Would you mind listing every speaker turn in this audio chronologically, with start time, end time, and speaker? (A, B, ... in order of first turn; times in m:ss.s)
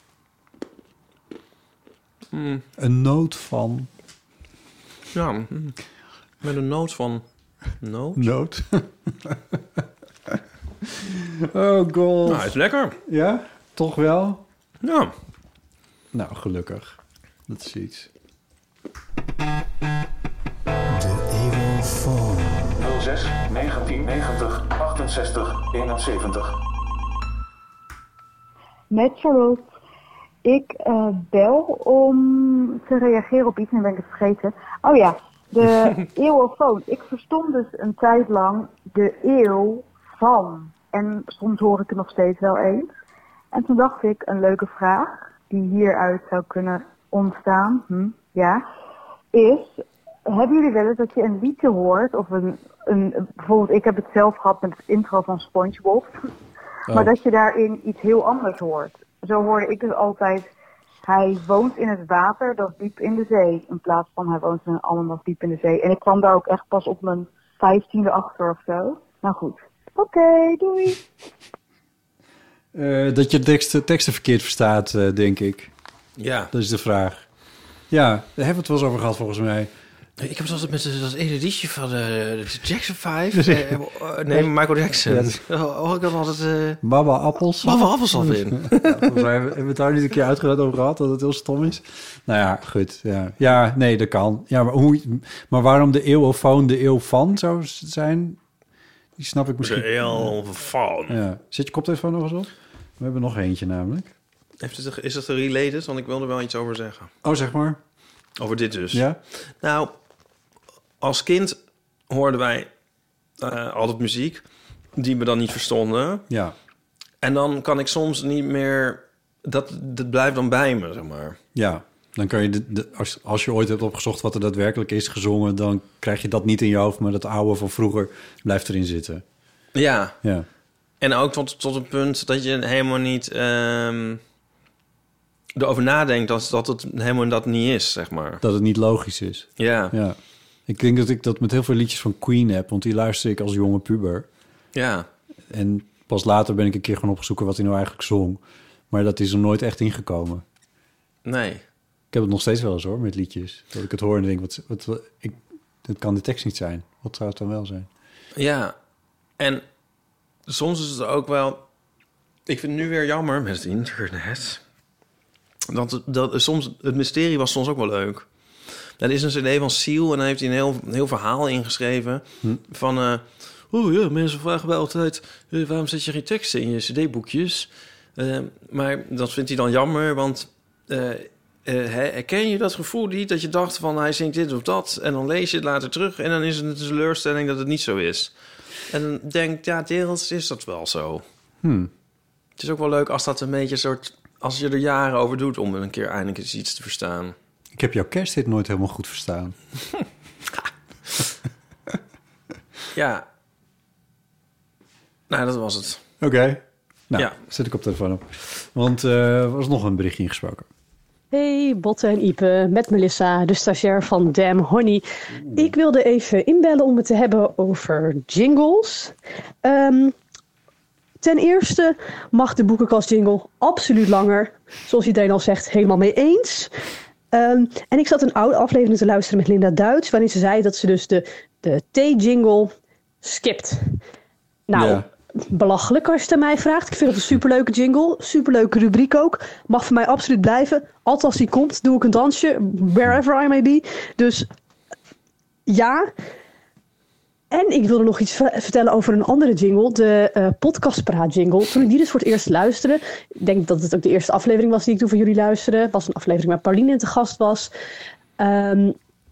0:02.3-0:02.6 A
0:02.8-0:03.9 B
0:05.1-0:05.7 A
0:06.4-0:07.2 A
0:07.8-0:08.2 A
0:08.2-0:09.6 B
0:10.3-0:14.4 B
0:12.2-0:13.0 A
0:14.8-0:15.1 A
0:16.1-0:18.1 B
0:20.9-0:22.8 B
0:22.9-0:26.4 C
0:28.9-0:29.7 D
0:30.4-0:42.9 D
0:43.5-0:48.6 D
0:49.3-0:56.1 D
0:56.9-1:00.5 D
1:01.0-1:11.0 D
1:12.7-1:15.7 B
1:16.2-1:16.5 A
1:16.5-1:17.2 B
1:17.9-1:19.7 B
1:20.2-1:26.8 A
1:23.3-1:24.5 B
1:25.0-1:25.4 B
1:26.8-1:38.4 B
1:27.6-1:29.3 A
1:39.2-1:40.4 B
1:39.6-1:41.2 A
1:41.1-1:44.1 B
1:44.6-1:47.1 A
1:47.2-1:47.8 B
1:48.4-1:49.0 A
1:48.9-1:49.2 B
1:49.6-1:49.9 A
1:51.0-1:51.6 A
1:52.1-1:52.7 A
1:53.4-1:54.4 A
1:55.0-1:56.2 A
1:56.3-1:56.6 B
1:57.2-2:01.4 A
2:01.6-2:09.2 B
2:09.8-2:10.2 A
2:11.0-2:14.2 A
2:15.6-2:18.4 A
2:18.4-2:24.3 B
2:19.6-2:20.0 A
2:24.8-2:25.1 A
2:25.5-2:30.4 B
2:31.3-2:31.6 A
2:32.1-2:37.9 B
2:38.4-2:38.8 A
2:39.4-2:39.6 A
2:40.5-2:41.6 A
2:42.5-2:44.6 A
2:45.7-2:48.3 A
2:49.0-3:08.3 A
3:08.9-3:11.2 A
3:11.6-3:11.9 B
3:12.6-3:17.4 A
3:17.7-3:19.6 B
3:23.0-3:23.2 A
3:25.3-3:26.0 A
3:26.2-3:30.7 B
3:31.3-3:40.2 E
3:41.2-3:46.7 E
3:47.3-3:54.0 E
3:54.7-4:04.5 E
3:54.7-3:55.1 B
4:05.7-4:06.1 E
4:07.5-4:17.7 E
4:18.4-4:19.0 E